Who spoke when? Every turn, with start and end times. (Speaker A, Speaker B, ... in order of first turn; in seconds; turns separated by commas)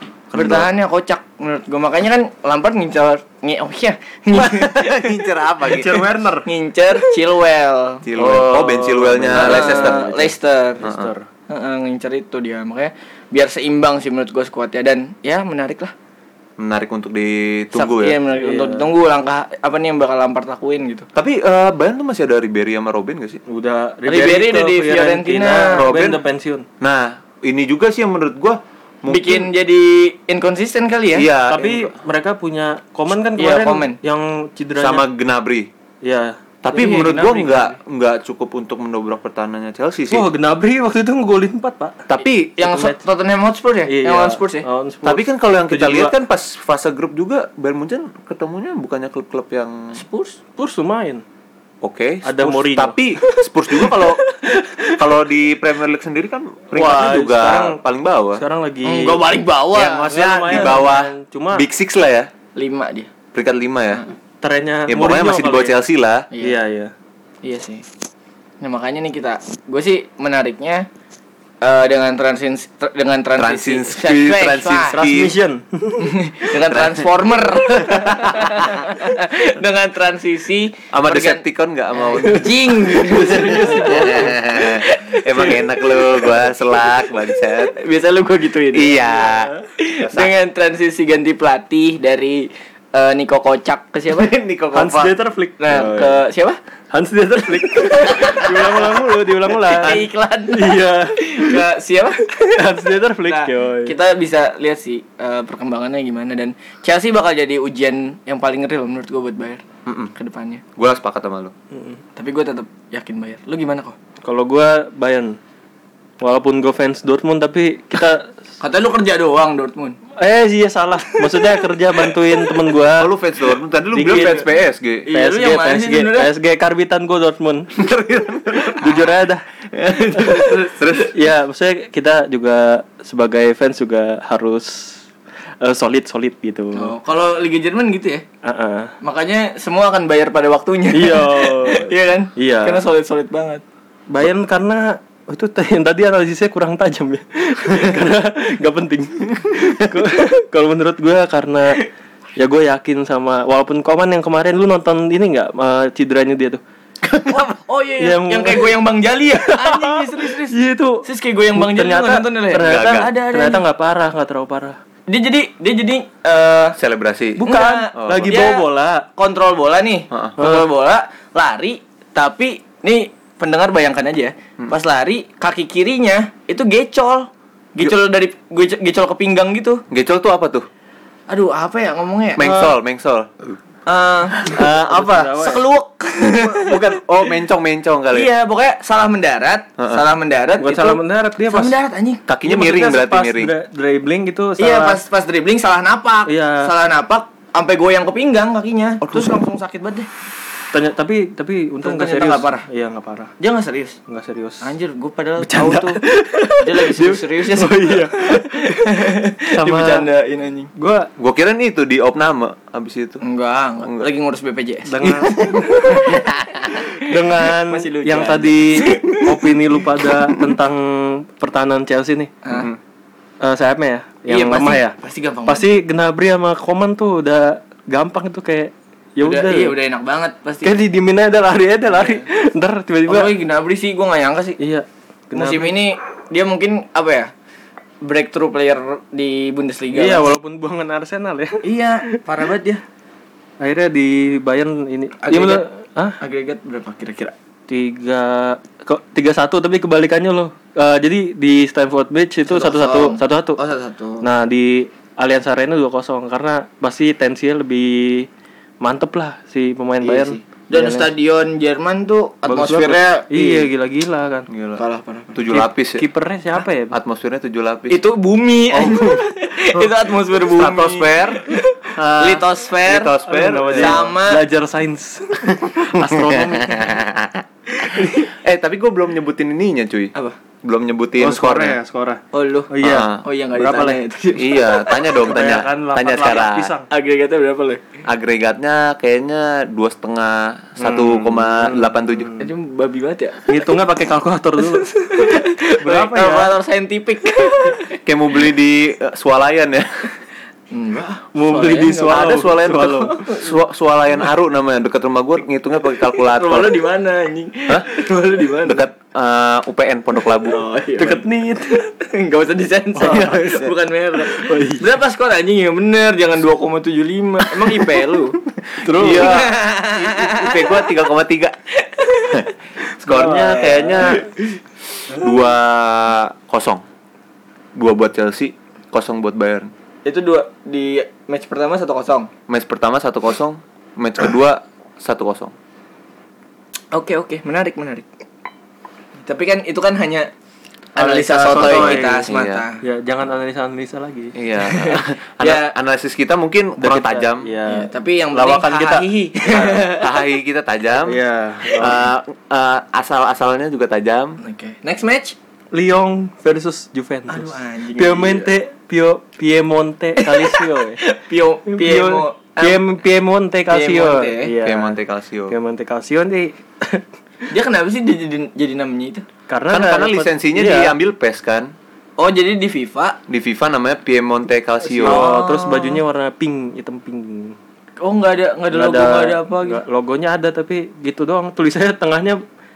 Speaker A: 0.3-0.7, Speaker B: 0.3-5.2, Speaker A: 4.3-6.1, Speaker C: 5.6-6.5, Speaker B: 6.5-8.0, Speaker A: 8.0-10.1, Speaker C: 8.2-11.3, Speaker B: 9.3-10.8, Speaker A: 10.8-11.1, Speaker B: 11.5-15.9, Speaker A: 16.6-18.2, Speaker B: 17.7-21.1, Speaker C: 18.4-18.9, Speaker A: 21.1-23.4, Speaker C: 23.5-26.7, Speaker B: 24.1-25.8, Speaker A: 25.7-26.2, Speaker A: 26.8-29.5, Speaker B: 29.1-31.3, Speaker A: 31.1-31.9, Speaker C: 31.5-35.1, Speaker B: 33.4-34.0, Speaker A: 34.8-35.7, Speaker C: 36.0-36.4, Speaker A: 36.6-40.3, Speaker B: 36.7-37.8, Speaker C: 40.1-42.0, Speaker A: 42.1-42.6, Speaker B: 42.6-44.6, Speaker C: 42.6-43.0, Speaker C: 43.9-46.1, Speaker A: 45.0-50.0, Speaker B: 49.9-50.4, Speaker C: 50.6-51.2, Speaker A: 51.8-54.2, Speaker C: 52.2-53.0, Speaker B: 54.6-54.9, Speaker A: 54.9-58.4, Speaker C: 56.7-57.8, Speaker C: 58.4-59.3, Speaker B: 58.8-60.7, Speaker A: 59.7-62.3, Speaker C: 59.9-61.7, Speaker B: 62.5-63.1, Speaker A: 63.3-64.0, Speaker C: 64.4-65.8, Speaker A: 64.9-66.3, Speaker B: 66.3-66.6, Speaker C: 66.4-66.9, Speaker B: 67.4-67.8, Speaker B: 68.6-70.9, Speaker B: 71.6-75.0, Speaker A: 73.4-75.3, Speaker C: 74.9-76.2, Speaker B: 76.0-86.4, Speaker A: 76.7-77.1, Speaker A: 77.7-78.8, Speaker A: 80.9-87.8, Speaker C: 82.9-84.2, Speaker B: 87.7-89.2, Speaker A: 88.7-90.3, Speaker C: 89.3-89.6, Speaker B: 89.8-94.3, Speaker A: 94.1-95.2, Speaker C: 94.7-96.2, Speaker B: 95.6-96.6, Speaker C: 96.9-101.6, Speaker B: 97.8-99.0, Speaker B: 99.7-102.6, Speaker C: 102.4-104.0, Speaker B: 103.2-109.6, Speaker A: 109.9-110.1, Speaker B: 110.2-110.6, Speaker A: 110.8-111.5, Speaker C: 111.7-112.0, Speaker B: 112.2-114.0, Speaker C: 114.2-115.4, Speaker C: 116.2-118.3, Speaker B: 118.6-120.0, Speaker C: 120.2-123.1, Speaker B: 121.2-122.6, Speaker A: 123.0-125.1, Speaker C: 123.9-124.5, Speaker B: 125.1-126.3, Speaker C: 125.1-127.7, Speaker A: 127.8-129.1, Speaker C: 128.7-129.4, Speaker A: 129.8-131.2, Speaker B: 129.9-131.1, Speaker C: 130.2-130.5, Speaker C: 131.1-135.0, Speaker C: 135.6-136.9, Speaker B: 136.7-138.2, Speaker C: 138.4-138.9, Speaker B: 139.0-143.6, Speaker C: 140.9-142.8, Speaker C: 144.1-151.8, Speaker C: 152.4-156.6, Speaker A: 157.1-157.4, Speaker B: 157.2-163.6, Speaker C: 158.0-158.8, Speaker C: 159.4-164.8, Speaker A: 162.6-163.1, Speaker B: 165.1-166.8, Speaker A: 166.8-168.5, Speaker C: 167.4-169.1, Speaker B: 167.4-179.8, Speaker A: 170.1-170.4, Speaker C: 170.4-170.7, Speaker A: 179.9-180.7, Speaker B: 181.3-182.5, Speaker A: 182.4-183.6, Speaker C: 182.4-182.7, Speaker B: 183.9-184.7, Speaker A: 184.3-185.4, Speaker C: 184.9-185.6, Speaker B: 185.3-187.0, Speaker A: 186.2-188.3, Speaker B: 188.1-192.2, Speaker C: 190.6-191.8, Speaker A: 192.3-193.5, Speaker C: 192.4-195.0, Speaker B: 194.6-200.1, Speaker C: 196.3-196.7, Speaker A: 199.0-199.4, Speaker C: 200.7-203.3, Speaker B: 201.8-202.7, Speaker B: 203.4-204.0, Speaker C: 204.1-204.7, Speaker B: 204.6-206.0, Speaker C: 205.4-209.0, Speaker B: 206.6-210.7, Speaker C: 209.5-210.1, Speaker C: 210.8-211.1, Speaker A: 211.2-213.2, Speaker B: 213.2-219.6, Speaker C: 214.9-216.2, Speaker A: 215.0-216.8, Speaker C: 216.9-222.3, Speaker A: 222.5-222.8, Speaker C: 223.4-225.0, Speaker B: 224.3-225.7, Speaker C: 225.5-229.8, Speaker B: 229.2-230.7, Speaker C: 230.6-233.3, Speaker B: 231.9-232.2, Speaker B: 233.1-234.6, Speaker C: 234.6-235.8, Speaker B: 235.3-237.3, Speaker B: 238.0-240.3, Speaker C: 239.9-241.7, Speaker B: 241.6-242.8, Speaker C: 243.6-246.2, Speaker B: 245.2-245.7, Speaker B: 246.2-247.3, Speaker C: 247.7-253.6, Speaker B: 252.5-254.3, Speaker C: 254.2-258.3, Speaker C: 258.8-261.1, Speaker B: 260.0-263.7, Speaker C: 262.5-264.5, Speaker A: 264.5-264.8, Speaker B: 264.8-265.4, Speaker A: 265.3-266.1, Speaker C: 265.5-266.9, Speaker A: 266.9-268.0, Speaker B: 267.9-273.1, Speaker A: 268.7-274.0, Speaker C: 273.3-276.9, Speaker B: 273.7-274.4, Speaker A: 275.9-280.1, Speaker C: 277.9-278.2, Speaker A: 280.6-281.8, Speaker C: 281.2-284.0, Speaker B: 282.3-285.1, Speaker A: 282.8-283.2, Speaker A: 284.4-286.7, Speaker C: 285.2-286.9, Speaker B: 286.9-287.8, Speaker A: 288.1-292.4, Speaker C: 290.8-292.4, Speaker B: 292.4-293.6, Speaker C: 293.5-296.5, Speaker B: 294.8-298.0, Speaker A: 298.1-300.0, Speaker B: 300.7-303.5, Speaker C: 301.4-303.3, Speaker A: 302.1-306.8, Speaker B: 306.2-308.9, Speaker A: 308.6-310.6, Speaker B: 310.4-318.4, Speaker C: 311.0-311.8, Speaker C: 313.0-313.6, Speaker A: 313.1-313.7, Speaker C: 314.3-314.9, Speaker A: 318.7-321.6, Speaker C: 318.8-319.5, Speaker B: 319.0-320.9, Speaker B: 321.8-322.5, Speaker A: 322.2-324.3, Speaker C: 323.1-324.2, Speaker B: 323.2-324.5, Speaker A: 325.1-326.8, Speaker A: 327.8-329.7, Speaker B: 330.1-332.3, Speaker A: 332.5-335.5, Speaker B: 336.9-338.1, Speaker B: 339.2-340.3, Speaker B: 341.0-342.8, Speaker C: 341.0-342.3, Speaker A: 341.5-342.6, Speaker C: 342.8-344.4, Speaker A: 344.4-347.5, Speaker B: 344.6-345.7, Speaker C: 346.8-349.1, Speaker B: 347.7-350.1, Speaker A: 349.4-354.4, Speaker C: 351.0-352.1, Speaker B: 354.4-355.4, Speaker C: 355.7-361.0, Speaker B: 357.3-358.5, Speaker B: 360.2-362.8, Speaker C: 361.7-365.0, Speaker B: 363.7-364.5, Speaker A: 364.6-365.6, Speaker C: 365.5-367.0, Speaker B: 367.5-369.2, Speaker C: 369.5-371.0, Speaker A: 369.7-371.7, Speaker B: 372.2-373.2, Speaker A: 373.3-375.3, Speaker C: 374.9-377.6, Speaker B: 375.0-376.0, Speaker B: 378.0-379.8, Speaker C: 378.7-382.4